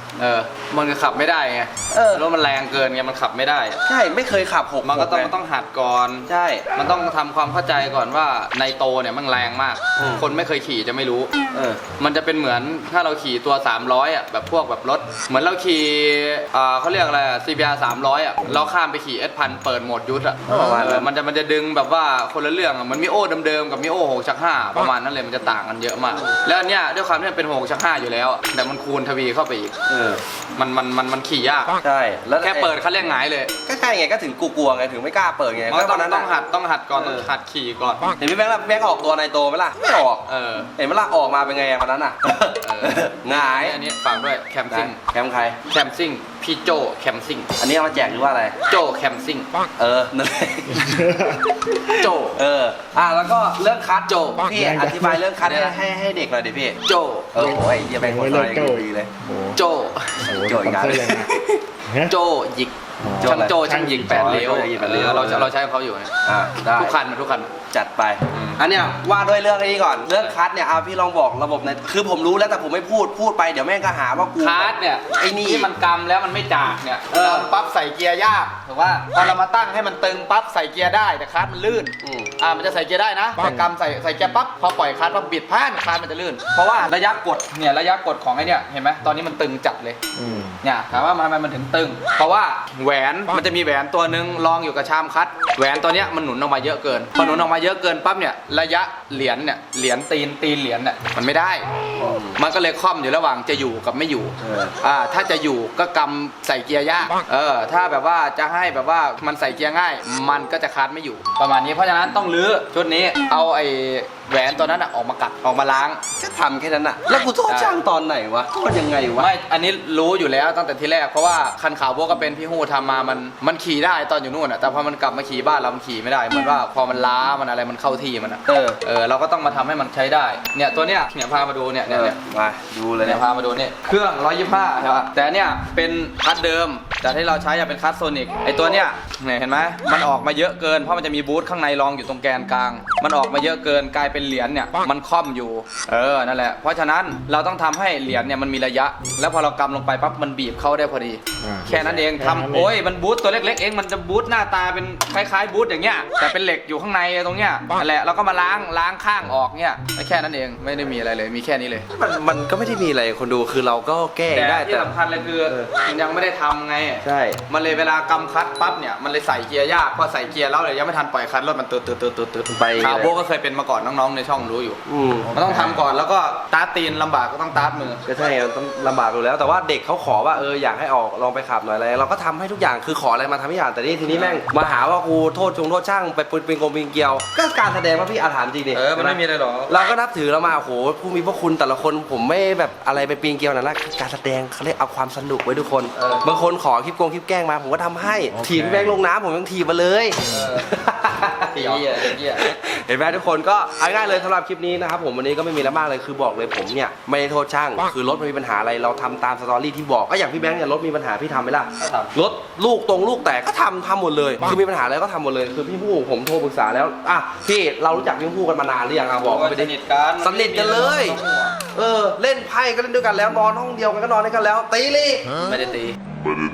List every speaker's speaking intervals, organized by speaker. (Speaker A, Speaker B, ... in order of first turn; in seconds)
Speaker A: 0.2-3.8, 4.8-11.3, 12.0-29.8, 30.6-31.8, 32.4-33.5, 35.7-38.1, 40.3-40.7, 42.6-45.0, 45.7-47.5, 48.7-49.5, 51.9-52.4, 55.4-55.8, 56.8-57.3, 59.5-60.3, 62.0-66.1, 66.7-67.5, 68.3-68.6, 74.4-90.0, 90.6-101.7, 102.3-116.0, 117.5-117.8, 119.2-132.2, 133.0-161.8, 164.3-174.8, 175.3-178.0, 184.0-184.4, 188.7-189.7, 195.9-196.3, 200.3-200.7, 201.5-202.6, 211.8-212.1, 219.1-221.6, 225.4-226.0
Speaker B: 1.9-2.2, 3.8-5.3, 6.3-6.7, 10.0-10.2, 11.5-11.8, 20.5-21.1, 29.9-30.2, 31.8-32.7, 33.6-36.3, 36.9-37.3, 38.2-43.8, 44.7-45.6, 47.6-48.5, 49.8-56.8, 57.3-59.1, 60.2-61.6, 63.2-65.5, 66.2-67.0, 67.7-75.7, 77.1-77.5, 82.0-82.3, 102.0-102.4, 104.4-104.7, 116.2-119.3, 128.5-128.8, 131.9-133.2, 151.7-152.0, 161.9-164.9, 165.4-165.7, 167.0-167.4, 172.5-173.1, 174.8-175.3, 178.1-221.2, 221.7-225.4
Speaker C: 50.7-51.5, 54.6-55.2, 57.4-59.6, 60.3-61.3, 61.9-62.1, 63.0-64.5, 90.1-90.6, 151.4-152.7